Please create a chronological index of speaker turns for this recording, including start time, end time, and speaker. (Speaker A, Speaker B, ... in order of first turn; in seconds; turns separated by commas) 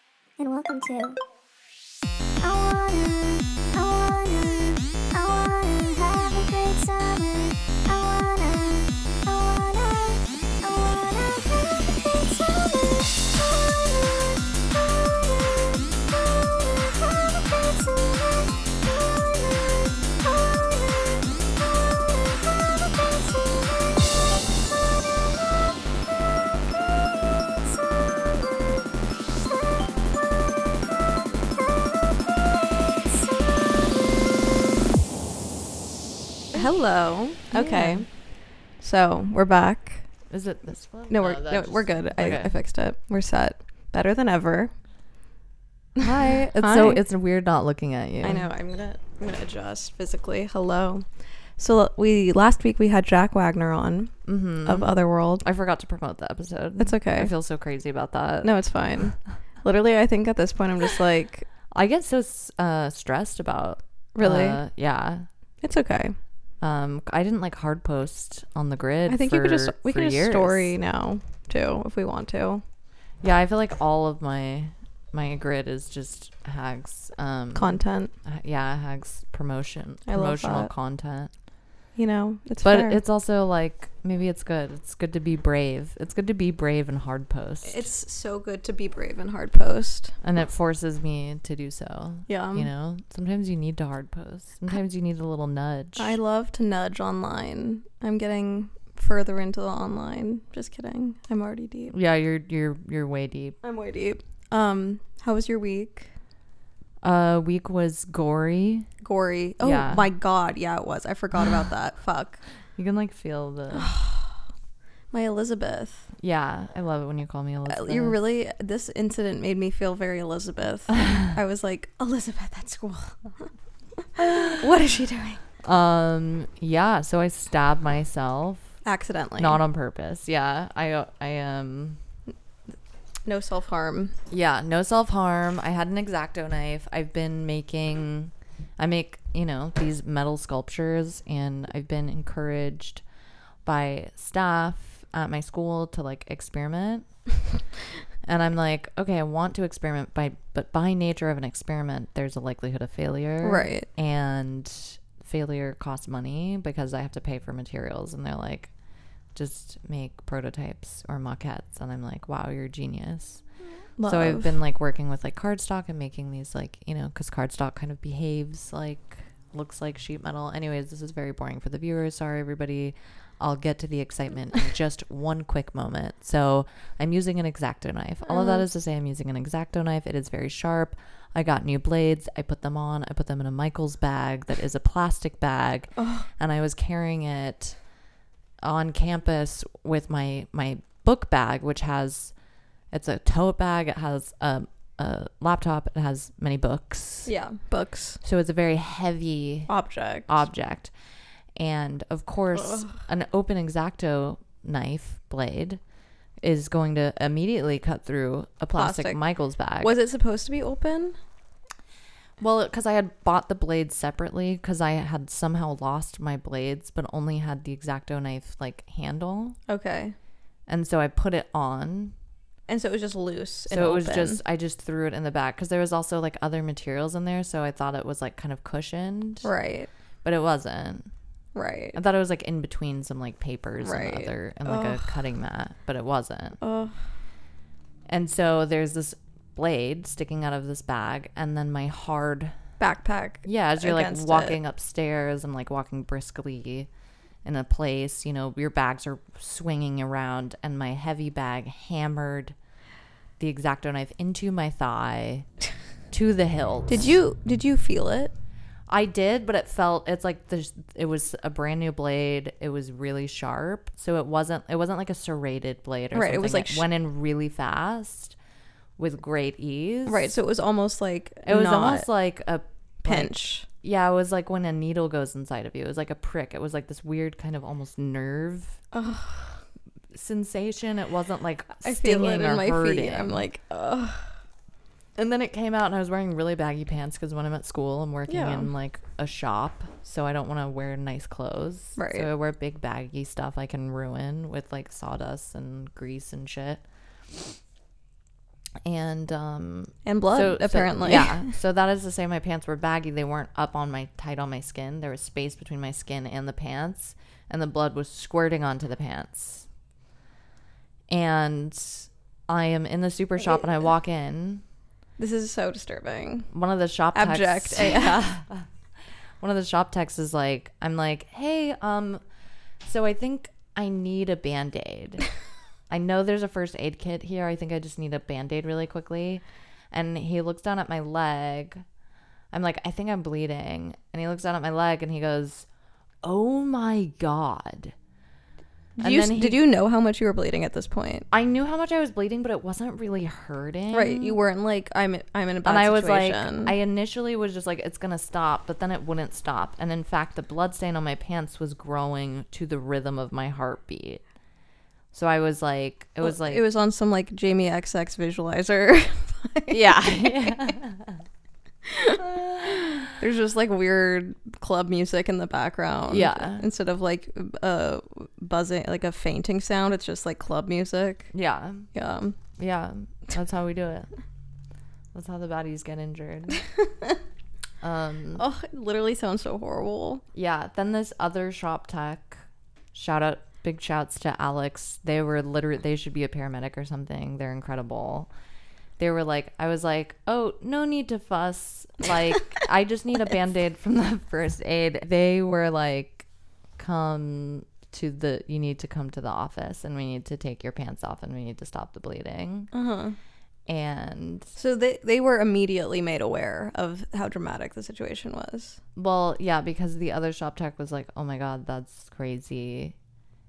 Speaker A: 0.4-1.2, Speaker A: 2.4-13.0, Speaker B: 36.5-40.1, Speaker C: 37.5-38.1, Speaker C: 40.3-42.5, Speaker B: 41.1-44.7, Speaker C: 46.0-48.5, Speaker B: 46.6-47.0, Speaker B: 48.2-51.0, Speaker B: 51.6-54.1, Speaker C: 54.2-58.6, Speaker B: 54.6-55.4, Speaker B: 56.8-57.3, Speaker B: 58.4-61.5, Speaker C: 61.7-65.2, Speaker B: 64.1-64.6, Speaker B: 65.6-66.2, Speaker C: 66.6-70.7, Speaker B: 69.1-72.6, Speaker C: 73.2-81.3, Speaker B: 77.5-78.1, Speaker B: 80.1-80.7, Speaker B: 82.0-83.0, Speaker C: 82.6-87.9, Speaker B: 87.6-90.1, Speaker C: 90.2-96.2, Speaker B: 92.3-92.7, Speaker B: 96.0-101.9, Speaker C: 101.9-103.6, Speaker B: 103.6-106.1, Speaker C: 107.0-108.9, Speaker B: 109.0-112.4, Speaker C: 109.6-110.0, Speaker C: 112.8-113.9, Speaker B: 113.7-114.3, Speaker B: 115.1-116.1, Speaker C: 116.2-118.2, Speaker B: 117.7-123.5, Speaker B: 124.1-125.4, Speaker C: 125.6-128.7, Speaker B: 128.8-129.6, Speaker C: 129.4-132.0, Speaker B: 133.2-134.1, Speaker C: 134.3-143.0, Speaker C: 143.6-147.1, Speaker C: 148.2-158.7, Speaker B: 153.4-153.9, Speaker C: 159.3-163.4, Speaker B: 164.0-164.5, Speaker C: 164.0-187.8, Speaker B: 178.3-178.6, Speaker B: 186.0-186.2, Speaker C: 188.6-192.3, Speaker C: 192.9-197.3, Speaker B: 197.2-198.2, Speaker C: 198.2-199.7, Speaker B: 199.7-200.3, Speaker C: 200.3-200.9, Speaker C: 201.6-205.8, Speaker C: 206.4-209.9, Speaker B: 208.7-209.2, Speaker B: 209.8-211.2, Speaker C: 212.4-219.6, Speaker B: 219.7-220.1, Speaker C: 220.7-222.1, Speaker B: 222.7-224.4, Speaker C: 223.7-229.5, Speaker B: 229.4-229.9, Speaker C: 230.2-231.1, Speaker B: 231.5-232.0, Speaker C: 231.9-236.6, Speaker B: 233.8-235.1, Speaker B: 236.6-236.9, Speaker C: 238.1-242.5, Speaker B: 242.8-244.6, Speaker C: 243.4-246.9, Speaker C: 247.4-252.5, Speaker C: 253.4-255.5, Speaker C: 256.1-257.0, Speaker B: 256.9-258.3, Speaker C: 258.9-268.4, Speaker B: 266.1-266.9, Speaker C: 269.0-270.3, Speaker B: 270.1-272.1, Speaker C: 271.4-278.8, Speaker B: 273.0-273.7, Speaker B: 278.9-279.6, Speaker C: 280.1-283.4, Speaker B: 281.8-284.3, Speaker C: 285.1-296.8, Speaker B: 288.3-288.7, Speaker B: 292.0-292.3, Speaker C: 298.8-309.6, Speaker B: 300.0-301.5, Speaker C: 311.1-314.6, Speaker B: 315.2-316.5, Speaker C: 316.5-318.7, Speaker B: 317.1-318.2, Speaker C: 319.4-322.2, Speaker C: 322.8-325.2, Speaker C: 325.9-331.8, Speaker C: 332.5-335.7, Speaker C: 336.2-337.9, Speaker B: 339.0-341.3, Speaker C: 339.0-339.6, Speaker C: 341.3-344.4, Speaker B: 343.9-346.7, Speaker C: 345.6-354.2, Speaker C: 355.1-356.6, Speaker B: 356.2-360.6, Speaker C: 359.7-361.2, Speaker B: 361.9-362.2, Speaker C: 362.1-363.1, Speaker B: 363.0-371.3, Speaker C: 366.1-366.7, Speaker C: 371.3-371.9, Speaker B: 371.9-372.4, Speaker C: 372.6-374.1, Speaker C: 375.1-376.6, Speaker C: 377.8-378.4, Speaker B: 378.4-380.2, Speaker C: 380.3-382.4, Speaker C: 382.9-388.3, Speaker C: 389.0-396.2, Speaker C: 396.8-402.7, Speaker B: 402.7-403.1, Speaker C: 403.7-404.5, Speaker B: 404.6-408.8, Speaker C: 408.9-412.9